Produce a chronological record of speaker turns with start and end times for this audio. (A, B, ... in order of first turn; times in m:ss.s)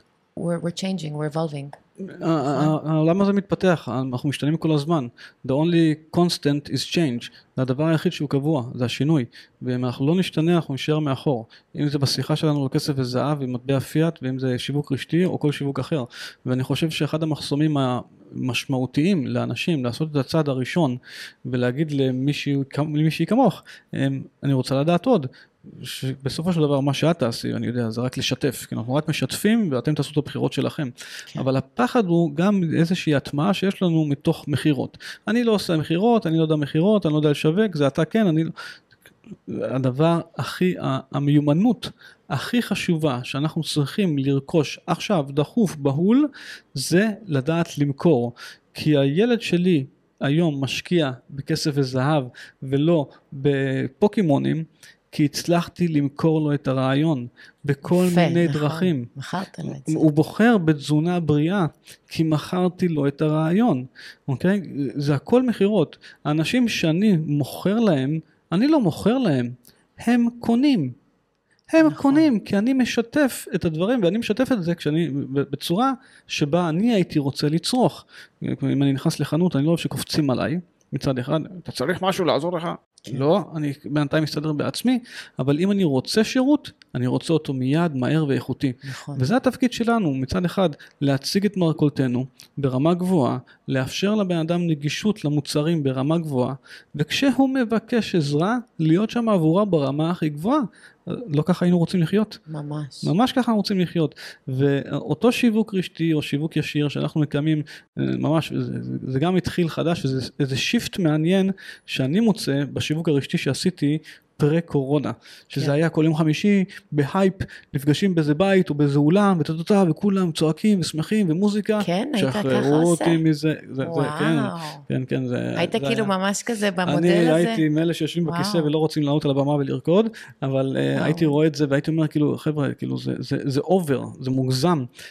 0:00.4-0:01.7 A
0:02.0-0:38.5 B
0:02.4-0:02.7 A
0:39.5-0:59.1 B
0:57.9-1:00.0 A
0:59.6-1:10.9 B
1:11.7-1:42.4 B
1:11.8-1:12.3 A
1:28.8-1:29.3 A
1:42.5-1:43.1 A
1:43.0-2:06.1 B
2:01.8-2:03.2 A
2:03.8-2:04.8 A
2:05.6-2:07.6 A
2:06.8-2:14.9 B
2:08.2-2:08.7 A
2:10.9-2:11.3 A